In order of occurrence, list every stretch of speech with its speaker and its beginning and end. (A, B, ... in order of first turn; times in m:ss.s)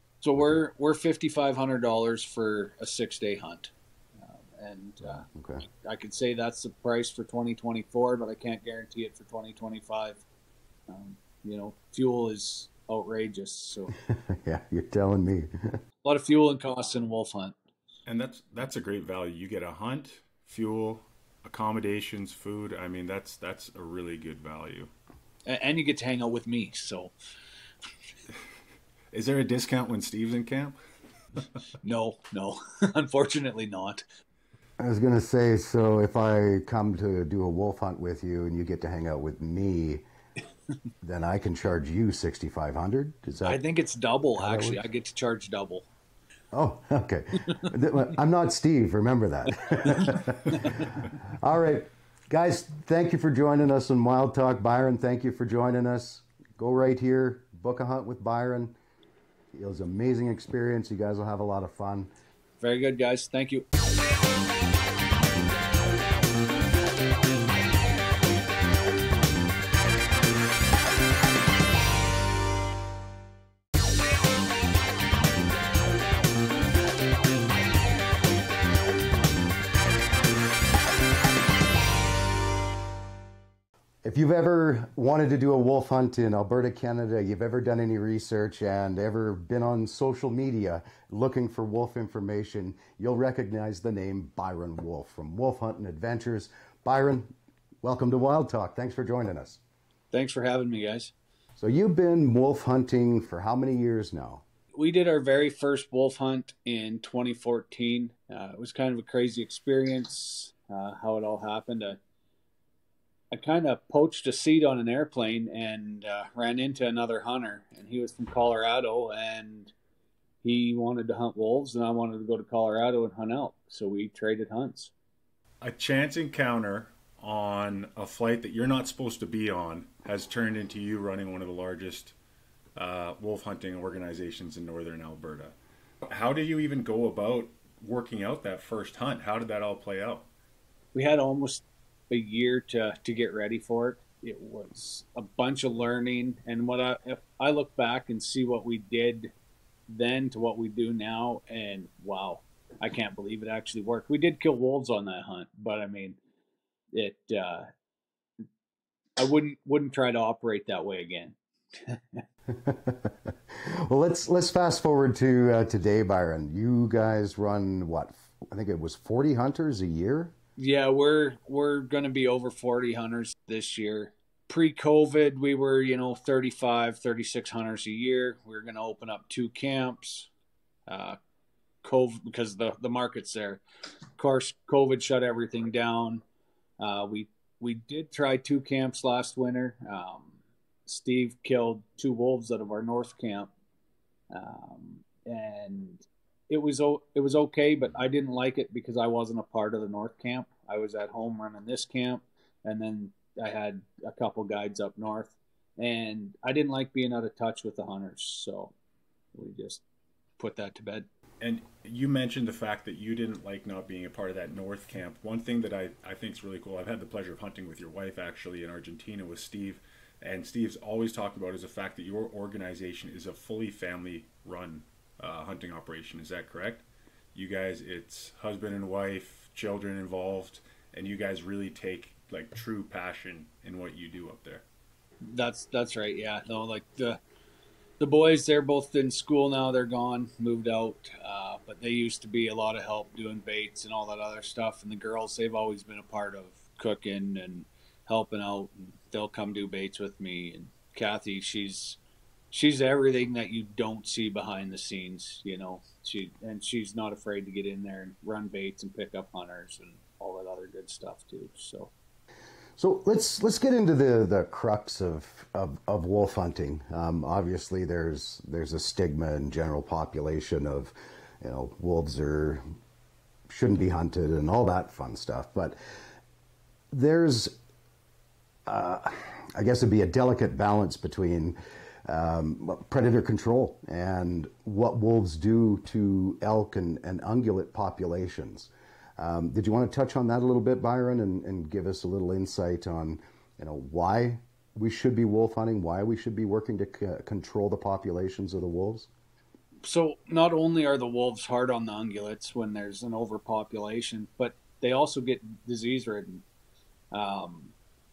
0:00.2-0:10.2 A
0:05.0-0:05.6 B
0:10.9-0:13.9 A
0:13.9-0:15.8 B
0:16.0-0:17.5 A
0:18.0-0:24.9 C
0:25.4-0:27.1 A
0:29.1-0:30.8 C
0:31.8-0:34.0 A
0:34.8-0:40.0 B
0:41.0-0:43.6 B
0:43.4-0:45.8 A
0:44.4-0:44.8 B
0:46.5-0:58.8 B
0:49.9-0:50.8 A
0:59.5-1:02.1 B
1:02.6-1:03.6 A
1:24.0-1:39.6 B
1:40.1-1:41.1 A
1:41.6-1:44.4 B
1:44.7-1:52.0 A
1:53.3-1:59.7 A
2:00.4-2:04.9 A
2:05.6-2:12.1 C
2:12.7-2:15.6 C
2:16.1-2:20.3 C
2:20.9-2:29.3 A
2:29.9-2:36.2 A
2:36.9-2:37.7 A
2:39.2-2:42.2 A
2:42.5-2:50.3 B
2:50.6-3:00.3 A
3:00.9-3:01.2 A
3:01.8-3:03.6 A
3:04.2-3:06.2 A
3:06.8-3:10.3 A
3:10.9-3:13.5 A
3:14.3-3:28.7 A
3:29.3-3:29.8 A
3:30.4-3:31.1 A
3:31.4-3:54.6 C
3:55.2-3:57.2 A
3:58.0-4:12.0 A
4:12.5-4:21.9 A
4:22.8-4:32.6 B
4:33.5-4:35.8 B
4:36.9-4:37.6 B
4:38.6-4:59.1 B
4:59.8-5:06.4 A
5:07.1-5:07.7 A